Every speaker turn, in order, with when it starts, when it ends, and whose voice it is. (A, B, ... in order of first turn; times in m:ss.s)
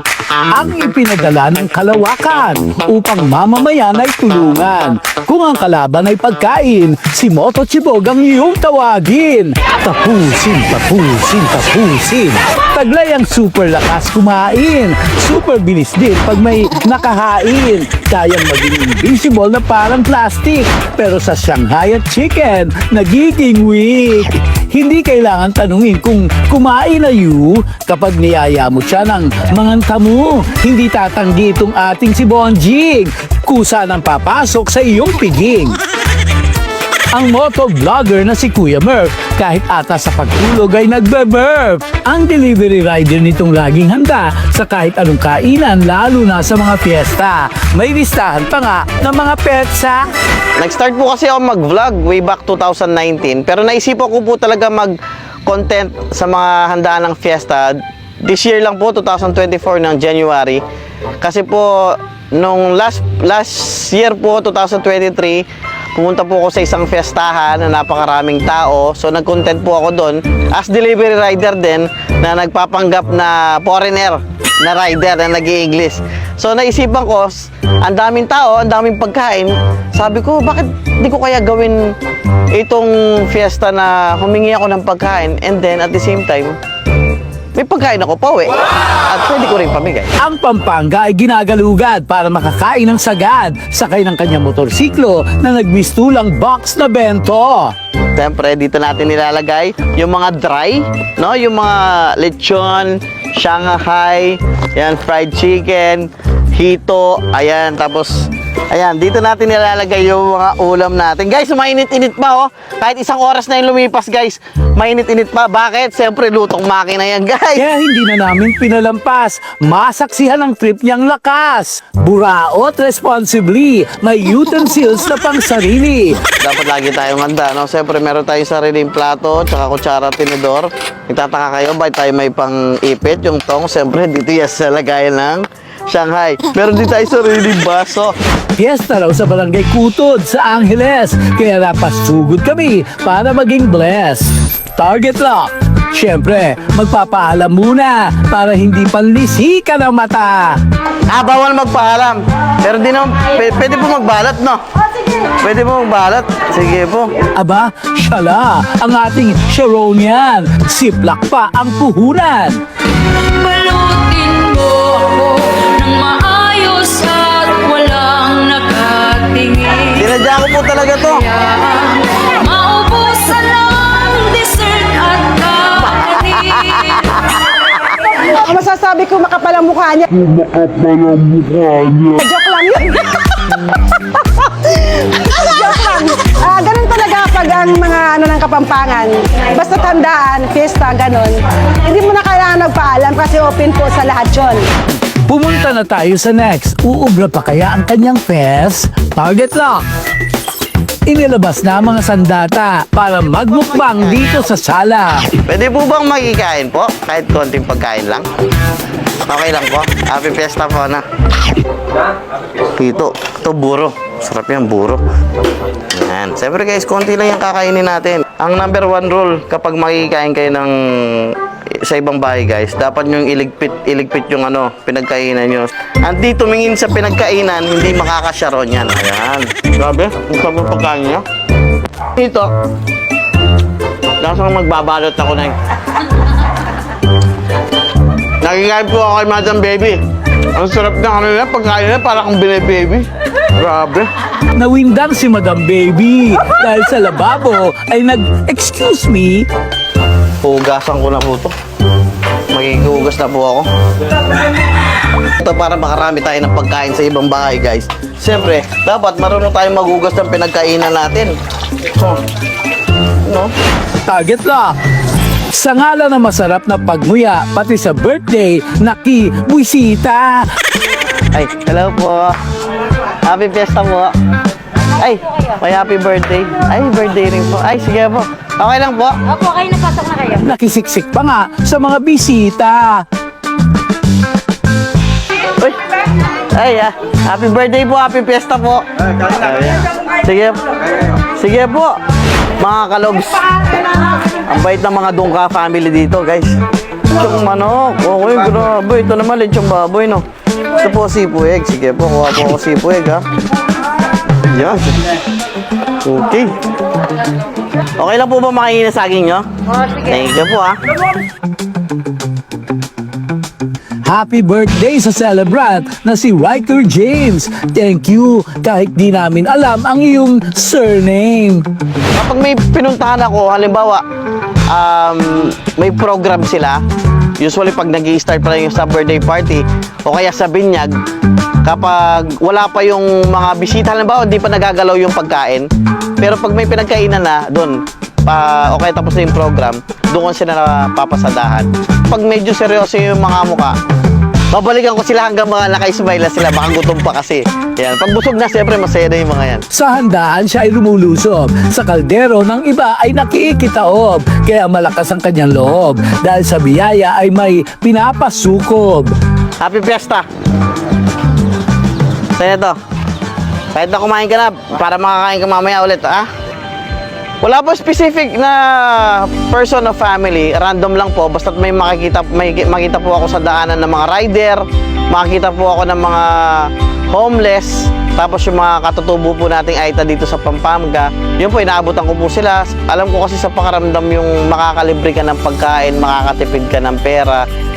0:00.5-0:35.8 A
0:37.1-0:50.0 A
0:50.6-0:54.9 B
0:55.4-1:00.6 B
1:01.2-1:21.9 B
1:22.5-1:26.6 B
1:27.5-1:30.1 B
1:30.2-1:37.7 A
1:38.2-1:57.6 B
1:57.5-2:06.2 A
2:06.4-2:18.1 B
2:18.6-2:30.6 A
2:31.1-2:34.6 B
2:35.2-2:37.1 B
2:37.4-2:42.6 A
2:43.4-2:50.1 C
2:49.9-2:51.2 B
2:51.2-2:57.3 C
2:58.1-3:00.8 D
3:02.0-3:14.6 D
3:15.3-3:19.8 A
3:21.1-3:25.2 A
3:23.6-3:24.2 B
3:25.4-3:28.3 B
3:29.3-3:31.0 B
3:32.7-3:35.0 B
3:35.9-3:51.2 B
3:52.1-3:52.5 B
3:54.2-3:55.6 B
3:58.4-4:00.0 B
4:00.5-4:04.1 B
4:04.5-4:09.4 A
4:10.4-4:11.5 B
4:12.5-4:13.7 B
4:15.4-4:21.3 B
4:21.9-4:22.2 B
4:23.2-4:23.5 B
4:24.0-4:24.8 A
4:25.5-4:30.5 A
4:31.3-4:32.3 B
4:33.2-4:34.1 B
4:35.0-4:39.6 B
4:39.6-4:40.1 C
4:40.2-4:43.0 A
4:45.6-4:45.9 B
4:46.5-4:50.6 B
4:51.2-4:51.9 B
4:52.6-4:53.8 B
4:54.4-4:56.6 B
4:57.1-5:00.2 B
5:00.8-5:03.2 B
5:04.5-5:05.0 B
5:06.0-5:06.6 B
5:08.0-5:10.8 B
5:14.0-5:21.6 A
5:22.1-5:24.0 B
5:24.7-5:26.8 B
5:27.4-5:31.0 B
5:31.6-5:35.7 B
5:36.2-5:43.7 B
5:44.5-5:49.6 B
5:49.7-5:59.1 A
5:59.6-6:00.2 B
6:02.3-6:02.8 B
6:03.7-6:06.3 B
6:07.4-6:27.4 B